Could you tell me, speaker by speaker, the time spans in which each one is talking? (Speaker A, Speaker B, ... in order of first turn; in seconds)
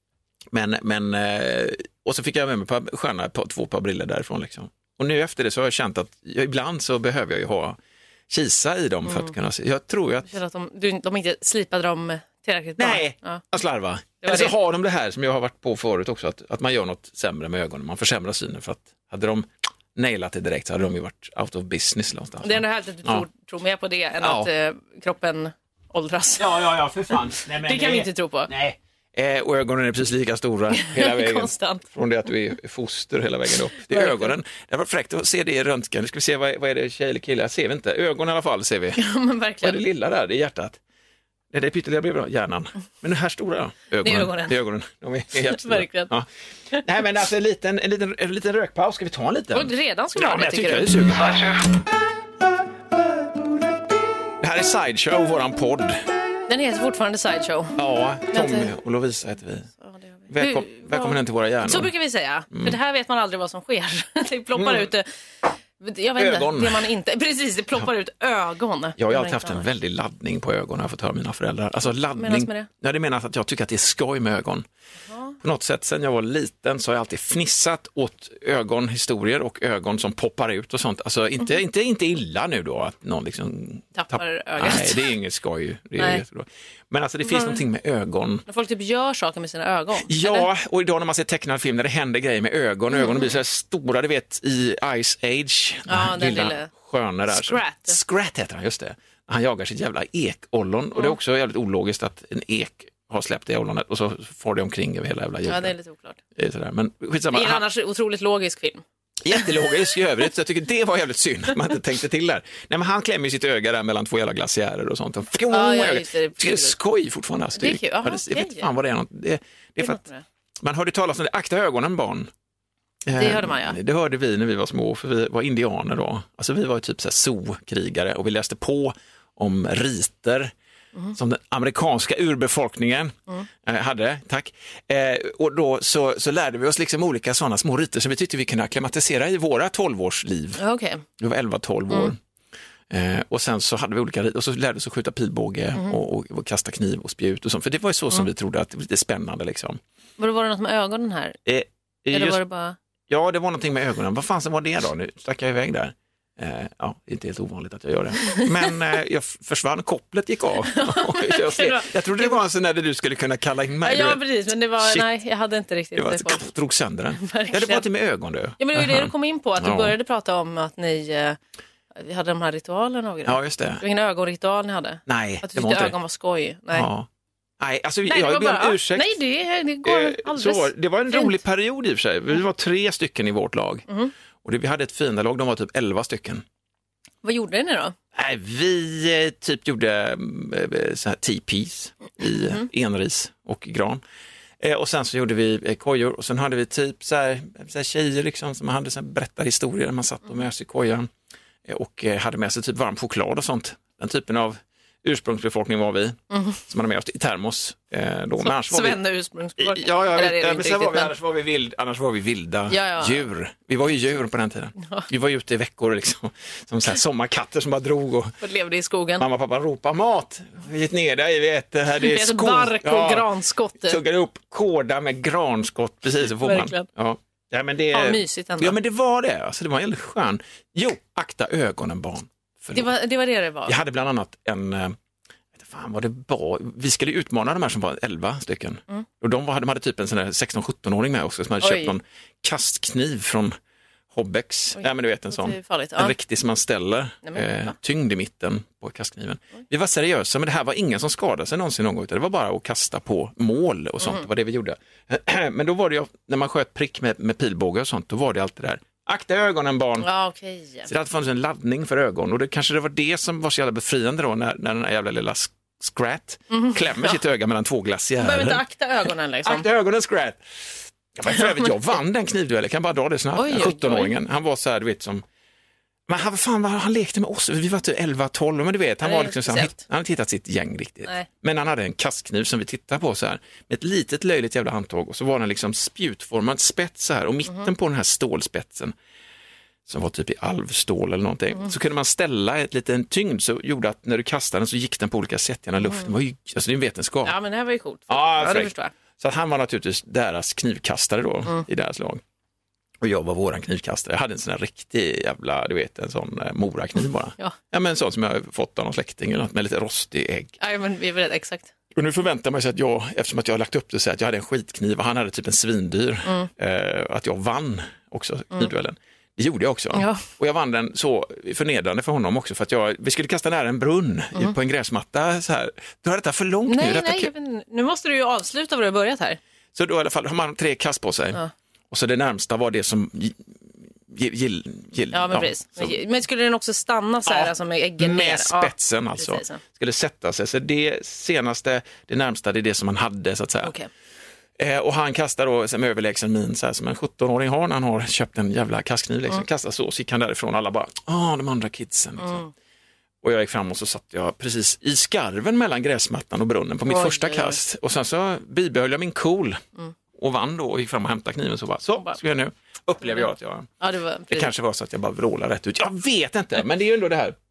Speaker A: 0.5-7.8, 8.3-10.3, 12.8-23.2, 24.2-24.5, 26.4-39.0, 39.6-40.8, 41.5-46.2, 46.8-51.7, 54.4-56.0, 57.8-59.7, 60.3-61.9, 62.5-62.8, 64.5-64.9, 66.2-66.9, 69.0-74.6, 75.4-88.4, 90.0-105.7, 106.3-107.6, 109.2-120.0, 120.6-122.3, 123.0-130.5, 131.1-140.6, 141.2-142.2, 142.9-149.8, 151.4-152.4, 153.1-164.2, 164.8-165.1, 165.9-169.9, 173.2-173.8, 175.1-175.9, 176.7-177.1, 177.6-179.1, 179.8-183.9, 184.4-186.4, 188.1-194.0, 194.6-201.1, 201.6-209.0, 209.6-218.3, 219.2-223.3, 223.8-232.9, 233.7-234.9, 235.5-243.5, 244.1-260.1, 260.9-268.6, 269.4-270.4, 271.1-275.2, 276.1-288.9, 289.9-297.3, 298.1-302.2, 303.0-310.5, 311.9-327.3, 329.7-331.4, 331.9-333.5, 334.1-335.9, 337.3-343.7, 344.6-352.4, 353.2-359.6, 360.1-363.7, 364.3-367.3
Speaker B: 9.1-9.3, 10.3-13.4, 14.2-14.5, 22.4-26.6, 27.6-28.5, 30.7-31.8, 33.9-34.3, 39.0-39.8, 44.0-44.5, 45.5-46.1, 49.5-50.9, 56.5-57.8, 58.3-58.7, 59.8-65.1, 65.8-69.7, 72.2-72.7, 75.1-75.3, 84.0-85.0, 86.0-86.2, 87.2-87.6, 88.5-90.5, 92.9-93.3, 95.9-96.7, 97.3-98.0, 105.5-106.2, 107.3-108.8, 115.5-116.8, 117.6-118.7, 119.8-120.2, 123.1-123.8, 140.6-141.0, 150.2-151.4, 152.1-152.8, 160.7-162.4, 163.8-166.4, 167.2-167.8, 168.6-171.4, 171.9-176.9, 178.1-181.4, 187.2-187.9, 206.3-206.6, 208.4-211.1, 212.7-213.2, 214.8-215.1, 218.4-219.2, 222.0-224.0, 226.4-226.8, 227.9-228.8, 232.7-233.7, 241.6-241.9, 244.8-246.1, 247.2-247.7, 254.0-254.2, 260.0-260.9, 266.5-267.2, 268.2-269.6, 273.4-274.1, 279.0-279.8, 295.8-296.1, 297.2-298.9, 310.6-311.7, 319.9-320.2, 326.7-329.4, 335.1-339.6, 343.6-343.9, 352.2-352.5, 356.9-357.6, 363.8-364.5